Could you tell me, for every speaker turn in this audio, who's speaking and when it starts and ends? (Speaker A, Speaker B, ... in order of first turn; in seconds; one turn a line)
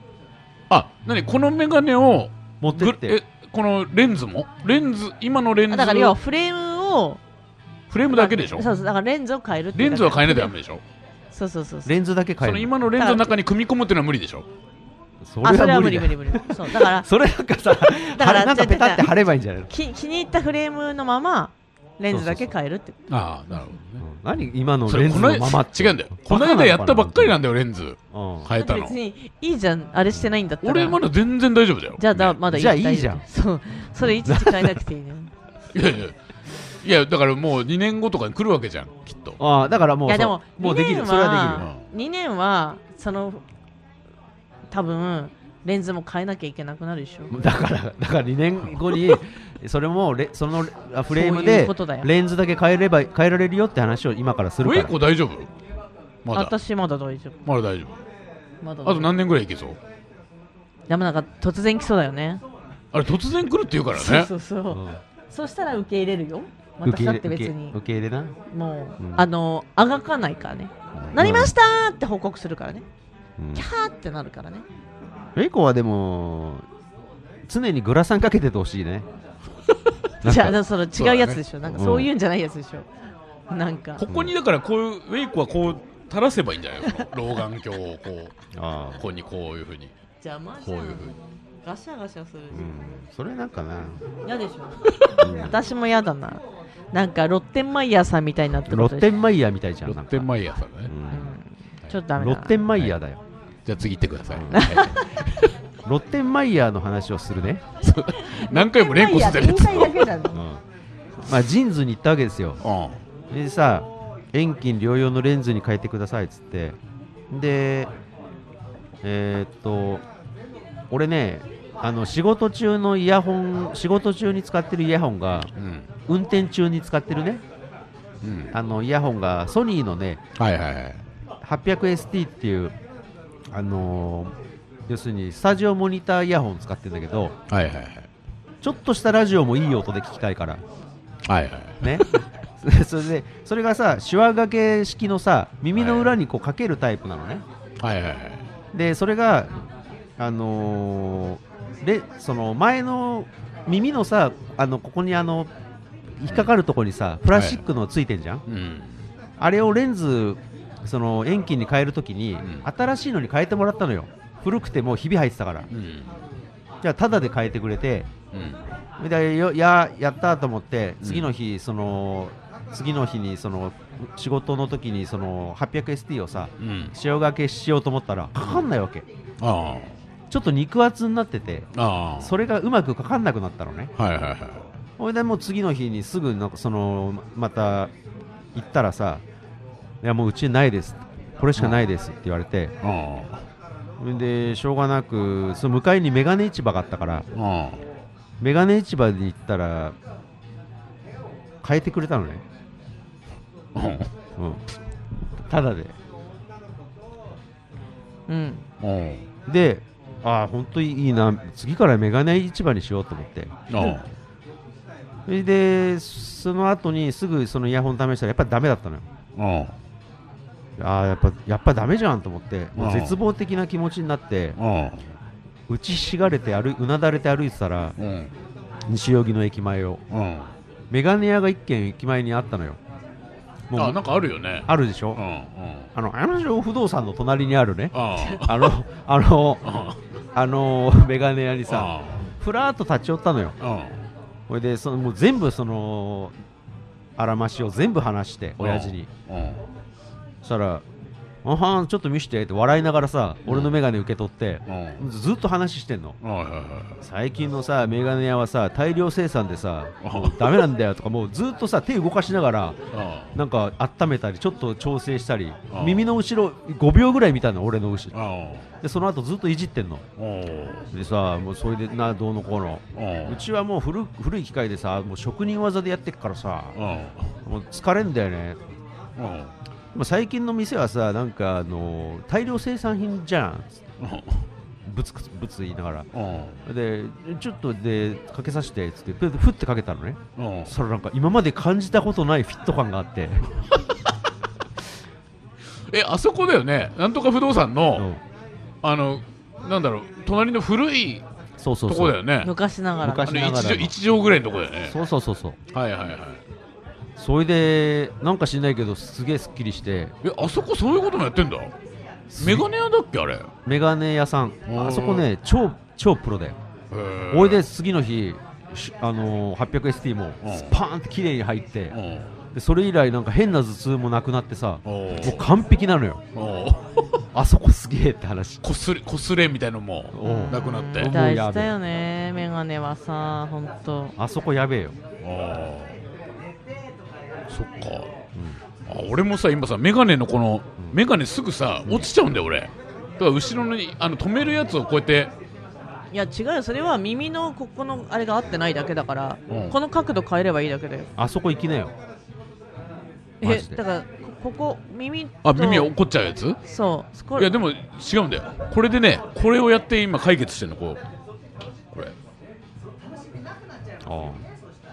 Speaker A: 0.7-6.2
Speaker B: 2.6-3.2
Speaker C: 5.7-7.2
Speaker A: 7.9-8.7
Speaker C: 8.1-10.5
Speaker A: 9.8-10.8
Speaker C: 11.3-11.9
Speaker B: 11.9-12.7
Speaker A: 12.4-14.5
Speaker C: 13.0-13.3
Speaker B: 15.2-19.7
Speaker C: 15.4-17.1
Speaker C: 18.0-19.1
Speaker C: 19.7-23.0
Speaker B: 22.1-22.5
Speaker A: 23.1-24.0
Speaker B: 24.0-27.4
Speaker A: 24.9-29.0
Speaker B: 28.1-28.5
Speaker C: 28.6-31.0
Speaker A: 30.6-32.4
Speaker C: 32.0-35.3
Speaker B: 32.5-33.2
Speaker B: 34.2-34.8
Speaker A: 35.7-36.2
Speaker A: 36.8-39.4
Speaker B: 39.4-41.7
Speaker C: 40.1-43.4
Speaker A: 41.6-41.9
Speaker C: 44.7-47.3
Speaker B: 47.3-55.0
Speaker C: 51.1-52.1
Speaker A: 54.6-55.5
Speaker A: 56.2-56.5
Speaker C: 56.3-57.4
Speaker A: 57.5-58.0
Speaker C: 58.6-59.1
Speaker A: 58.9-59.8
Speaker C: 60.9-62.4
Speaker A: 62.9-64.3
Speaker C: 63.9-67.8
Speaker B: 64.7-65.0
Speaker B: 66.8-68.3
Speaker C: 68.5-72.9
Speaker B: 69.0-69.2
Speaker A: 71.0-71.4
Speaker B: 71.2-71.5
Speaker B: 73.4-73.7
Speaker C: 73.5-74.7
Speaker B: 75.4-76.7
Speaker B: 77.5-79.1
Speaker B: 80.2-80.5
Speaker C: 80.2-82.9
Speaker A: 81.0-81.4
Speaker B: 81.7-82.1
Speaker C: 83.5-84.1
Speaker A: 84.0-88.3
Speaker B: 84.1-84.3
Speaker B: 88.5-89.0
Speaker A: 89.0-89.9
Speaker C: 90.2-92.7
Speaker A: 90.6-91.2
Speaker B: 92.5-94.0
Speaker C: 94.2-99.1
Speaker B: 95.2-95.6
Speaker B: 98.7-100.3
Speaker A: 99.9-100.9
Speaker B: 100.9-101.3
Speaker C: 101.1-102.6
Speaker B: 102.2-103.2
Speaker A: 103.7-105.5
Speaker B: 104.3-104.7
Speaker C: 104.5-105.0
Speaker B: 105.8-107.6
Speaker A: 107.8-110.1
Speaker C: 108.2-110.5
Speaker B: 110.3-110.6
Speaker B: 111.2-112.6
Speaker A: 112.6-113.0
Speaker B: 113.3-116.8
Speaker B: 117.3-117.9
Speaker B: 119.0-120.0
Speaker B: 120.9-125.5
Speaker A: 125.6-125.9
Speaker B: 126.1-127.4
Speaker A: 128.2-128.5
Speaker B: 128.5-130.2
Speaker A: 130.4-131.0
Speaker B: 131.4-132.8
Speaker B: 133.5-134.3
Speaker B: 134.9-137.4
Speaker A: 137.5-138.1
Speaker B: 138.6-140.6
Speaker A: 141.3-142.1
Speaker B: 141.8-142.1
Speaker B: 142.6-147.4
Speaker A: 145.8-146.2
Speaker A: 147.8-148.4
Speaker B: 148.7-149.5
Speaker B: 150.2-155.5
Speaker B: 156.2-158.4
Speaker A: 157.3-157.6
Speaker A: 158.5-159.0
Speaker B: 159.4-165.7
Speaker A: 165.7-166.1
Speaker B: 166.8-168.1
Speaker A: 168.3-168.6
Speaker B: 169.0-179.1
Speaker A: 171.0-171.3
Speaker A: 176.6-176.9
Speaker A: 179.4-179.9
Speaker B: 180.3-181.7
Speaker A: 181.8-182.3
Speaker B: 182.2-183.9
Speaker A: 184.0-184.7
Speaker B: 185.0-187.9
Speaker B: 188.5-189.2
Speaker B: 190.0-192.7
Speaker A: 192.8-193.4
Speaker B: 194.0-197.3
Speaker A: 197.3-197.8
Speaker B: 198.4-200.0
Speaker B: 201.6-202.4
Speaker A: 203.8-204.1
Speaker B: 204.4-204.6
Speaker B: 205.5-205.9
Speaker C: 208.3-208.7
Speaker A: 208.8-209.3
Speaker B: 209.5-213.9
Speaker A: 213.7-214.1
Speaker B: 215.3-219.1
Speaker A: 219.4-219.7
Speaker B: 220.8-224.6
Speaker A: 222.8-223.2
Speaker A: 224.6-225.1
Speaker B: 225.7-228.0
Speaker A: 228.0-228.3
Speaker B: 228.9-230.0
Speaker A: 230.1-230.5
Speaker B: 230.9-232.8
Speaker B: 233.7-234.0
Speaker A: 233.8-235.9
Speaker B: 234.7-235.2
Speaker B: 235.9-239.8
Speaker A: 237.9-238.7
Speaker A: 239.6-240.0
Speaker B: 240.3-243.6
Speaker A: 241.7-242.3
Speaker A: 243.6-244.0
Speaker B: 244.5-246.3
Speaker B: 247.2-249.1
Speaker A: 248.6-249.6
Speaker B: 250.4-250.8
Speaker B: 251.4-256.2
Speaker A: 253.5-253.8
Speaker A: 254.7-255.0
Speaker A: 256.2-257.0
Speaker B: 257.0-262.8
Speaker A: 260.0-260.7
Speaker A: 262.9-263.3
Speaker B: 263.3-268.1
Speaker A: 265.7-266.1
Speaker A: 268.1-268.7
Speaker B: 268.8-270.0
Speaker A: 270.2-270.9
Speaker B: 270.9-276.8
Speaker A: 272.9-273.4
Speaker A: 276.8-277.3
Speaker B: 277.4-278.6
Speaker A: 279.2-279.5
Speaker B: 279.9-283.8
Speaker A: 284.0-284.5
Speaker B: 284.8-286.1
Speaker A: 286.1-286.6
Speaker B: 286.6-293.5
Speaker A: 290.4-290.7
Speaker A: 295.9-298.1
Speaker A: 298.8-301.2
Speaker B: 301.6-302.2
Speaker A: 301.9-302.5
Speaker C: 302.4-303.4
Speaker B: 303.0-303.9
Speaker A: 303.3-305.0
Speaker B: 304.9-305.6
Speaker A: 305.7-306.4
Speaker B: 307.2-310.1
Speaker A: 310.2-311.7
Speaker B: 312.3-312.7
Speaker A: 312.4-313.5
Speaker B: 313.7-316.6
Speaker A: 314.7-315.3
Speaker A: 316.9-317.6
Speaker B: 317.3-322.0
Speaker A: 320.4-320.8
Speaker A: 321.9-322.3
Speaker B: 322.5-326.2
Speaker A: 324.9-325.4
Speaker A: 326.3-327.2
Speaker B: 327.3-328.6
Speaker A: 328.6-331.1
Speaker B: 330.1-331.7
Speaker C: 330.2-334.1
Speaker B: 334.2-335.0
Speaker A: 335.2-335.9
Speaker A: 337.5-338.1
Speaker A: 338.9-345.3
Speaker C: 346.1-351.1
Speaker A: 349.5-349.8
Speaker B: 351.2-351.9
Speaker C: 353.4-355.9
Speaker B: 353.4-353.8
Speaker A: 355.4-356.6
Speaker C: 356.7-357.5
Speaker A: 357.4-361.0
Speaker B: 364.0-364.4